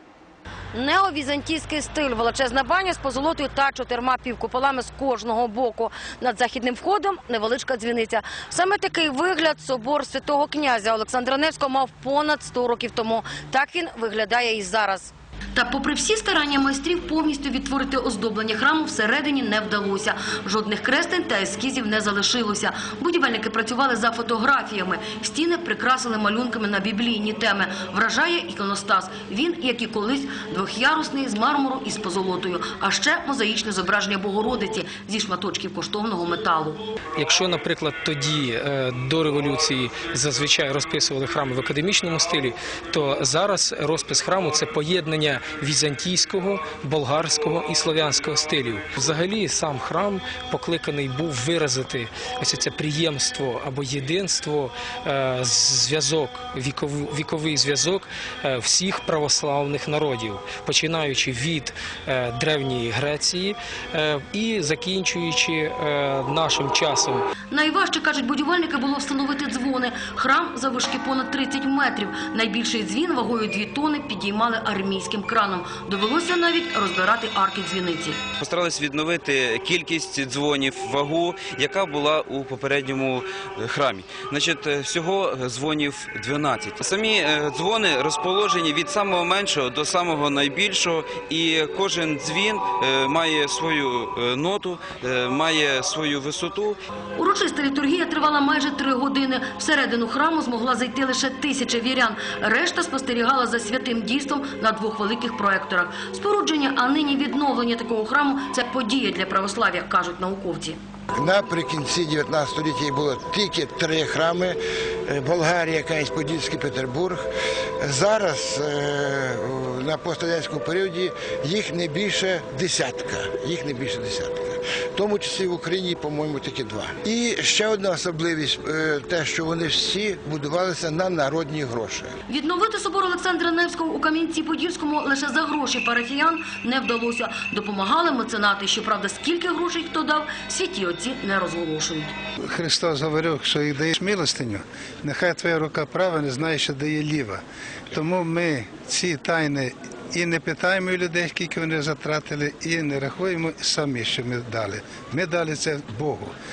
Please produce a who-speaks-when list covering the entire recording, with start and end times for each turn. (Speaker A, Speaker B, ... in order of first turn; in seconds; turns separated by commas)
Speaker A: 0.7-36.8, Speaker B: 37.2-67.3, Speaker A: 67.5-78.2, Speaker C: 78.4-96.8, Speaker A: 97.2-110.8, Speaker D: 111.1-117.2, Speaker D: 117.8-132.1, Speaker A: 132.3-142.1, Speaker E: 142.5-156.3